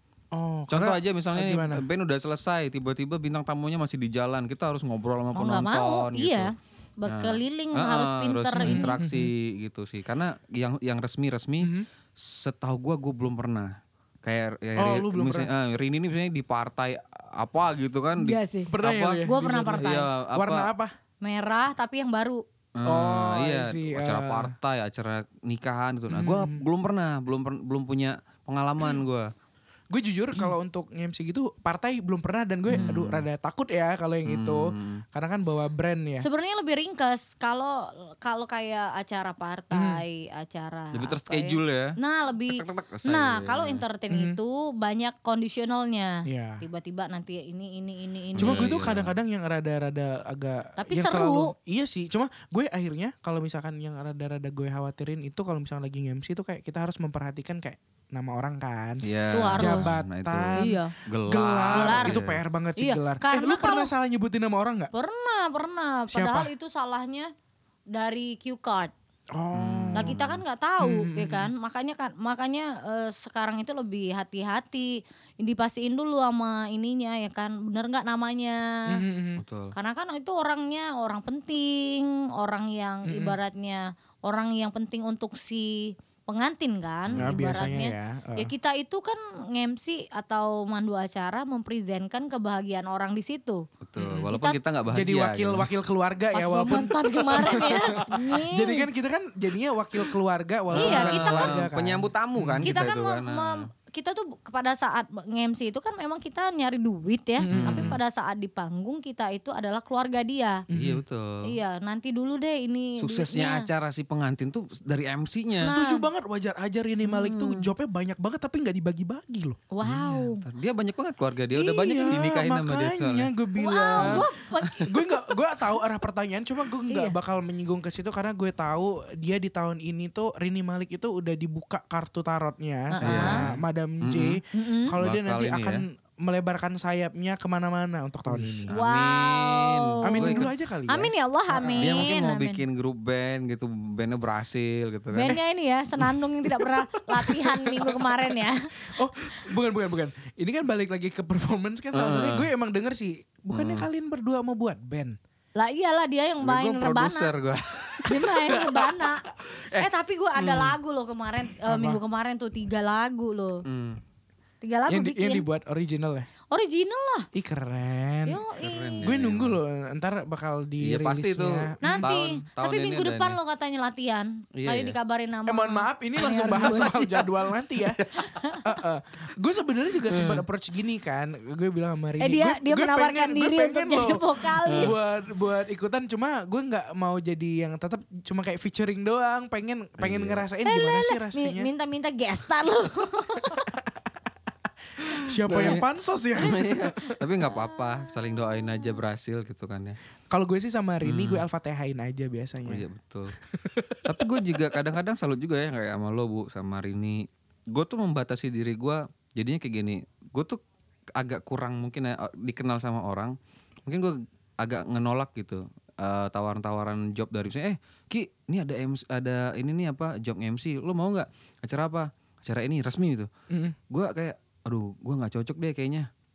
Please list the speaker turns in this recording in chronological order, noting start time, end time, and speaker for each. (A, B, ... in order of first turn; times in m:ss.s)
0:00.3-0:01.8 A
0:00.7-0:06.5 B
0:05.3-0:08.9 C
0:07.1-0:20.7 B
0:08.6-0:09.3 A
0:11.6-0:11.9 A
0:14.8-0:15.5 A
0:18.2-0:18.7 C
0:18.7-0:20.9 A
0:19.2-0:20.1 C
0:21.2-0:22.4 C
0:22.8-0:29.3 B
0:22.8-0:24.5 A
0:26.1-0:26.6 A
0:29.9-0:36.2 A
0:32.7-0:33.2 B
0:34.2-0:35.0 B
0:36.2-0:48.7 C
0:39.7-0:40.0 A
0:40.9-0:41.9 B
0:42.5-0:43.8 B
0:44.1-0:44.4 A
0:46.3-0:46.6 A
0:48.4-0:49.1 B
0:48.4-0:59.0 A
0:50.8-0:51.5 C
0:59.0-1:02.4 B
0:59.3-0:59.9 C
0:59.6-1:04.9 A
1:00.6-1:00.9 C
1:01.7-1:02.2 C
1:02.8-1:03.9 C
1:04.9-1:07.3 C
1:06.1-1:06.5 A
1:07.9-1:08.9 C
1:09.3-1:10.2 A
1:09.5-1:10.4 B
1:09.9-1:19.0 C
1:10.8-1:11.5 A
1:18.9-1:19.4 A
1:19.4-1:19.7 B
1:19.7-1:34.6 C
1:23.0-1:23.4 A
1:27.2-1:28.5 A
1:33.8-1:35.7 B
1:34.9-1:42.8 A
1:36.3-1:38.9 C
1:37.6-1:38.0 B
1:40.7-1:43.6 B
1:40.8-1:41.6 C
1:42.6-1:50.6 C
1:47.4-1:48.0 A
1:47.5-1:48.0 B
1:50.7-1:51.0 A
1:50.7-1:51.5 B
1:51.4-1:53.7 C
1:53.0-1:55.7 B
1:55.6-2:00.2 A
1:55.6-1:56.0 C
1:57.1-1:57.7 B
1:59.7-2:00.4 C
1:59.8-2:03.3 B
2:01.5-2:04.3 A
2:03.6-2:05.4 C
2:04.0-2:04.7 B
2:04.8-2:18.7 A
2:06.9-2:07.1 C
2:12.9-2:13.4 C
2:13.0-2:14.4 B
2:14.5-2:14.9 C
2:15.0-2:15.8 B
2:18.3-2:20.5 B
2:18.7-2:22.6 C
2:20.0-2:22.0 A
2:21.8-2:25.4 B
2:25.1-2:28.7 C
2:27.2-2:28.4 A
2:28.9-2:35.2 A
2:31.9-2:32.5 B
2:33.5-2:33.9 B
2:35.6-2:37.3 C
2:36.4-2:38.6 B
2:38.0-2:43.6 C
2:38.5-2:39.1 A
2:39.5-2:40.8 B
2:41.6-2:42.0 A
2:43.6-2:44.0 B
2:44.6-2:45.4 C
2:44.9-2:46.3 A
2:46.5-2:47.3 C
2:47.3-2:48.4 A
2:48.3-2:49.1 C
2:48.6-2:49.6 B
2:49.0-2:52.1 A
2:50.8-2:53.4 B
2:51.8-2:57.3 C
2:54.6-2:55.0 B
2:55.5-2:58.0 A
2:57.9-2:58.6 B
2:58.2-2:58.6 C
2:58.6-3:11.7 A
3:00.1-3:00.4 B
3:02.2-3:04.9 C
3:04.7-3:05.0 B
3:10.0-3:10.4 B
3:10.6-3:13.7 C
3:13.4-3:13.8 A
3:15.1-3:15.8 B
3:15.2-3:17.0 A
3:16.4-3:20.0 B
3:17.4-3:18.6 C
3:20.3-3:22.8 A
3:21.0-3:21.4 B
3:22.6-3:23.4 B
3:23.5-3:24.4 A
3:24.0-3:30.6 B
3:31.2-3:33.3 B
3:33.8-3:43.3 B
3:43.5-3:43.8 A
3:43.9-3:46.1 B